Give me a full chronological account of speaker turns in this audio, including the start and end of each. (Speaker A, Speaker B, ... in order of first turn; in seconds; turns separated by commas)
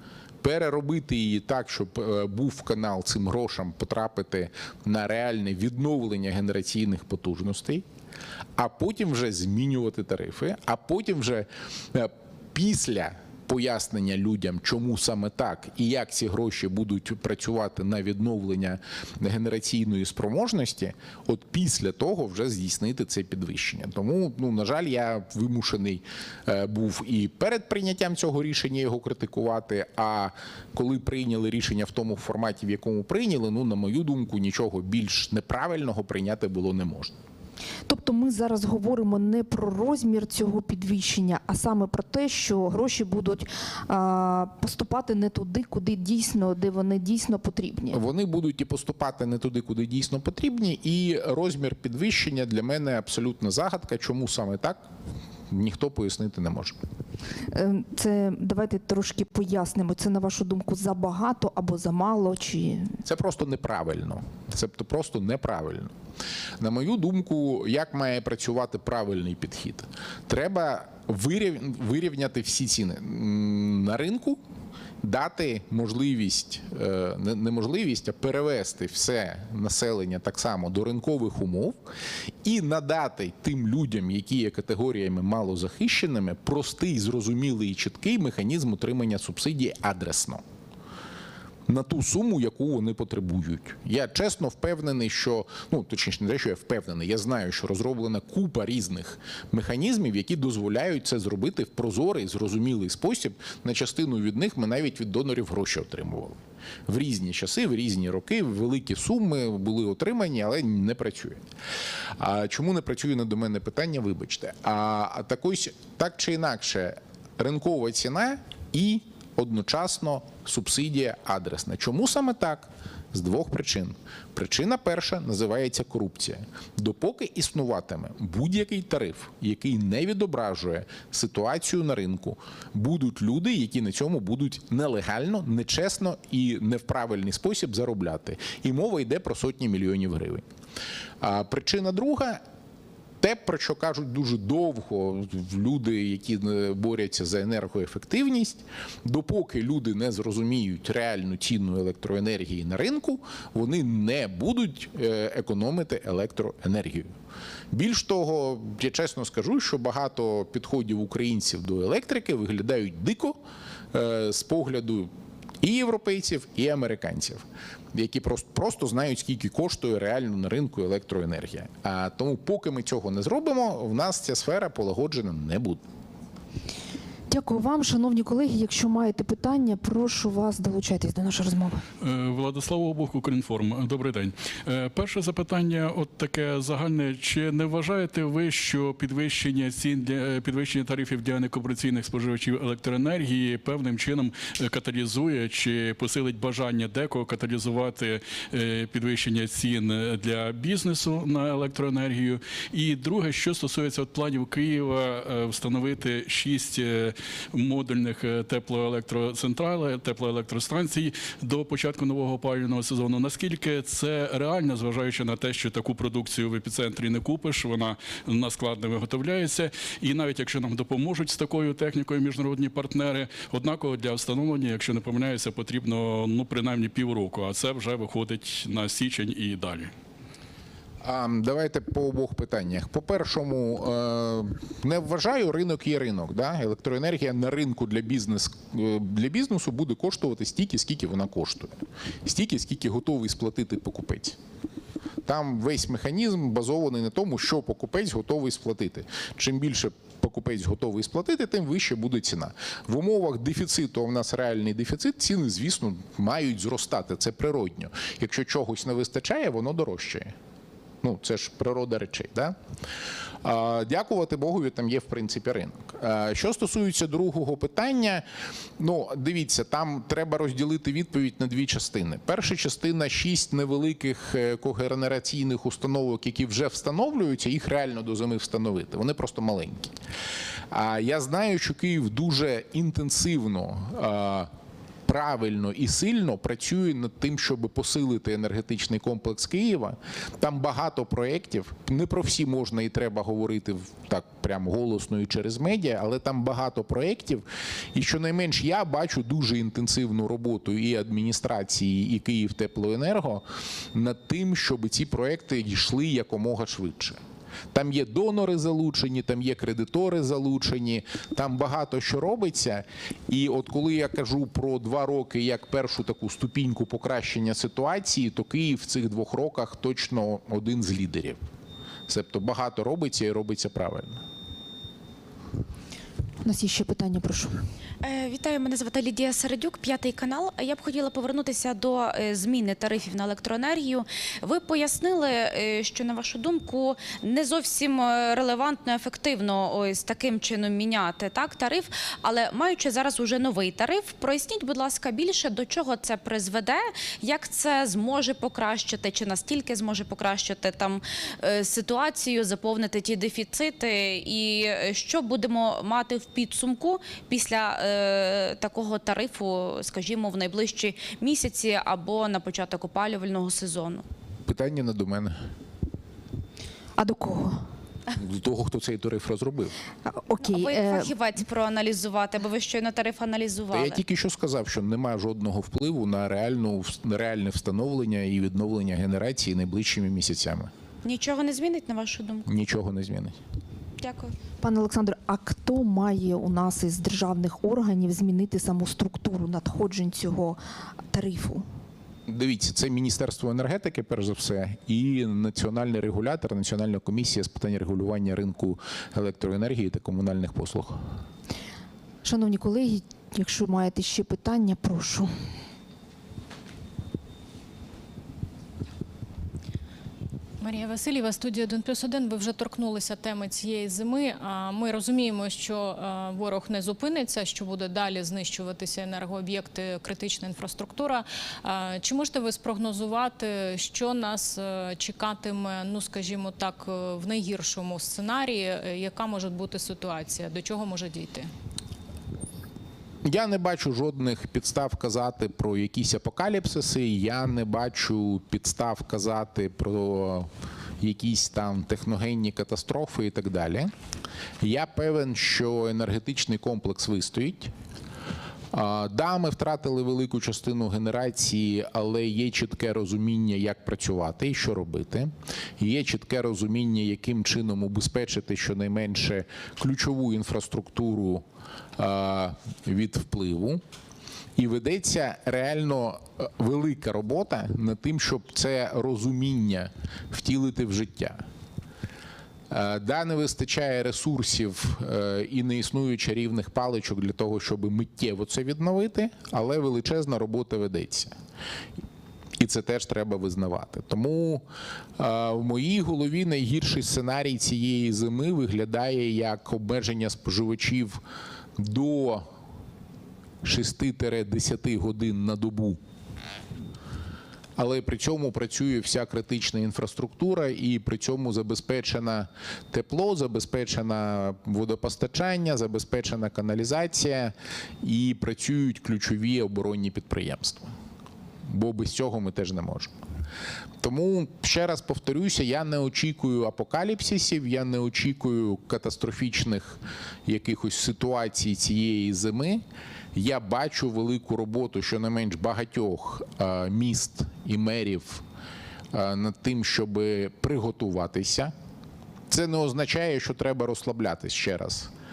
Speaker A: 0.4-7.8, Speaker A: 8.6-37.1, Speaker B: 37.9-48.0, Speaker A: 47.9-54.8, Speaker A: 55.5-56.8, Speaker B: 57.5-63.0, Speaker A: 63.0-65.9, Speaker A: 66.6-74.4, Speaker A: 75.0-81.8, Speaker A: 82.4-90.4, Speaker A: 91.7-111.4, Speaker A: 112.2-140.4, Speaker A: 141.2-142.4, Speaker A: 143.2-157.1, Speaker A: 157.7-163.4, Speaker A: 163.9-175.8, Speaker B: 177.3-181.8, Speaker C: 182.0-229.9, Speaker A: 231.0-244.4, Speaker A: 245.2-260.3, Speaker A: 261.0-262.6, Speaker A: 263.4-268.2, Speaker A: 268.8-280.0, Speaker A: 280.7-284.5, Speaker A: 285.1-307.2, Speaker A: 307.7-321.4, Speaker A: 322.1-324.2, Speaker B: 326.4-327.6, Speaker D: 328.0-364.1, Speaker A: 364.5-365.4, Speaker B: 367.0-367.7, Speaker A: 368.1-369.7, Speaker B: 370.1-371.1, Speaker D: 370.4-374.0, Speaker A: 373.7-380.7, Speaker D: 381.0-382.5, Speaker A: 382.5-383.4, Speaker D: 384.0-384.3, Speaker B: 384.6-390.6, Speaker B: 391.1-391.6, Speaker A: 392.3-401.1, Speaker B: 402.2-405.3, Speaker E: 410.6-431.5, Speaker A: 433.2-440.5, Speaker A: 441.0-443.9, Speaker A: 444.6-447.7, Speaker A: 448.7-461.4, Speaker A: 462.0-463.8, Speaker A: 464.6-471.4, Speaker A: 472.7-481.4, Speaker A: 482.6-484.6, Speaker A: 485.2-491.2, Speaker A: 491.8-492.5, Speaker A: 493.6-496.0, Speaker A: 497.8-510.9, Speaker A: 511.7-513.1, Speaker A: 514.0-528.4, Speaker A: 529.1-531.7, Speaker A: 532.5-535.1